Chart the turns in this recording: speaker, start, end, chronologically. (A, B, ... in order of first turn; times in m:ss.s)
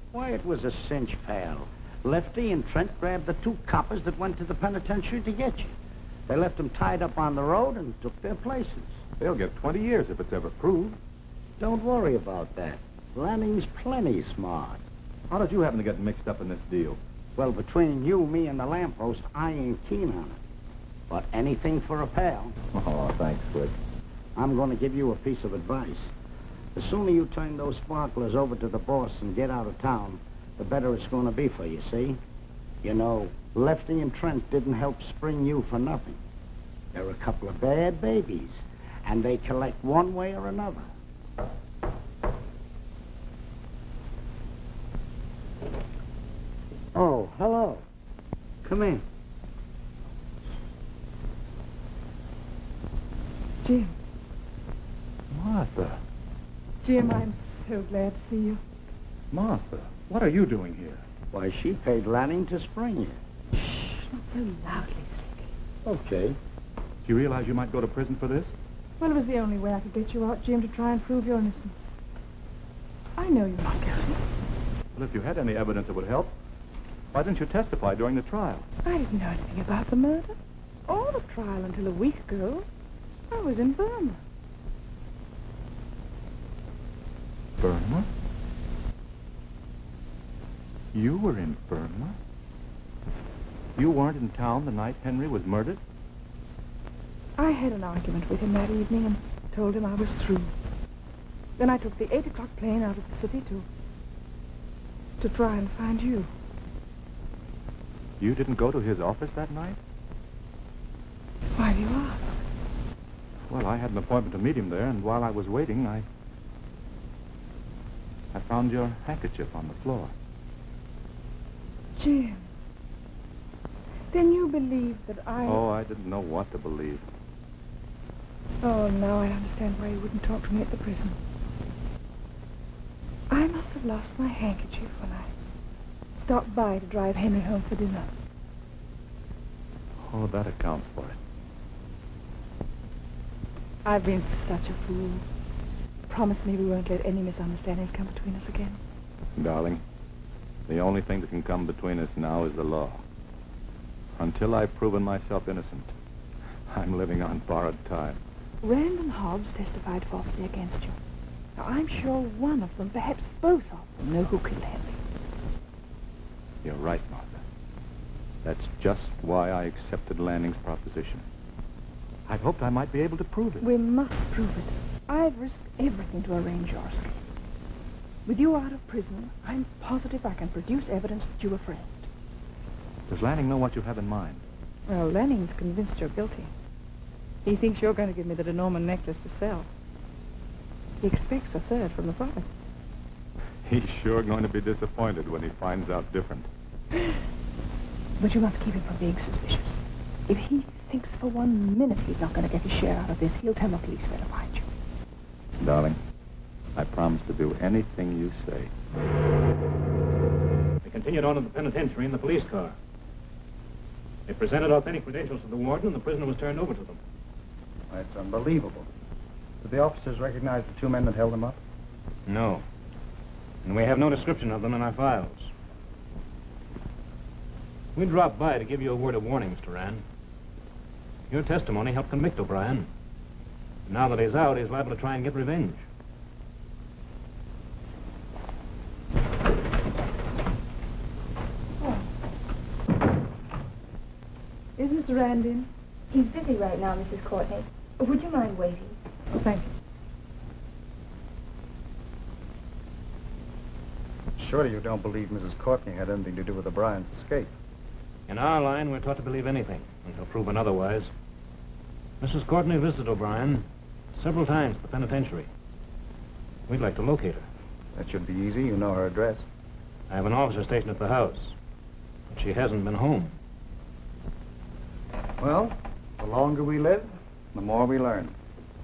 0:00.1-0:05.7 A
0:06.3-0:09.0 A
0:09.2-0:11.0 B
0:11.6-0:14.8 A
0:15.3-0:17.0 B
0:17.4-0:20.4 A
0:21.1-0:22.6 A
0:22.7-0:23.7 B
0:24.3-0:26.1 A
0:26.7-0:32.2 A
0:32.8-0:36.2 A
0:36.9-0:40.9 A
0:48.6-0:49.0 A
0:53.6-0:54.0 C
0:55.3-0:56.0 B
0:56.8-0:58.6 C
0:59.3-1:01.0 B
1:01.3-1:03.2 A
1:03.6-1:05.5 C
1:05.8-1:06.4 A
1:07.0-1:08.5 B
1:09.0-1:11.9 C
1:13.2-1:14.2 C
1:14.9-1:16.3 B
1:17.1-1:18.6 B
1:18.8-1:22.7 C
1:23.3-1:24.2 C
1:27.6-1:28.1 B
1:30.9-1:32.2 B
1:33.8-1:35.8 B
1:37.4-1:40.5 C
1:41.6-1:43.6 C
1:45.2-1:46.3 C
1:48.2-1:49.8 B
1:51.5-1:52.4 C
1:53.5-1:56.0 B
1:58.3-2:00.1 B
2:02.0-2:02.5 C
2:04.1-2:05.7 C
2:05.4-2:07.0 B
2:08.6-2:11.2 C
2:13.3-2:15.3 C
2:16.2-2:18.1 C
2:20.0-2:21.2 B
2:23.8-2:25.2 C
2:26.1-2:28.8 C
2:29.3-2:29.8 B
2:30.7-2:33.0 B
2:34.2-2:35.9 B
2:36.7-2:38.2 B
2:38.6-2:41.0 C
2:41.6-2:45.0 C
2:46.6-2:47.4 B
2:48.4-2:51.2 B
2:52.2-2:53.6 B
2:53.6-2:57.2 C
2:58.2-3:02.1 C
3:03.1-3:04.4 B
3:04.9-3:06.5 C
3:07.4-3:09.7 C
3:11.0-3:12.5 C
3:13.6-3:16.5 B
3:18.2-3:24.6 C
3:25.6-3:26.0 B
3:26.8-3:28.7 B
3:30.8-3:32.8 D
3:34.3-3:37.0 D
3:37.9-3:38.9 E
3:39.6-3:41.6 E
3:42.3-3:42.6 D
3:43.6-3:45.5 D
3:48.0-3:50.0 D
3:51.3-3:52.9 D
3:53.9-3:55.8 D
4:01.8-4:02.1 C
4:04.8-4:05.7 C
4:06.1-4:08.9 F
4:09.3-4:09.7 C
4:14.4-4:17.5 E
4:18.3-4:21.1 D
4:22.2-4:25.5 D
4:26.7-4:27.4 D
4:27.9-4:29.5 E
4:30.1-4:31.5 D
4:32.3-4:33.3 D
4:35.4-4:38.3 E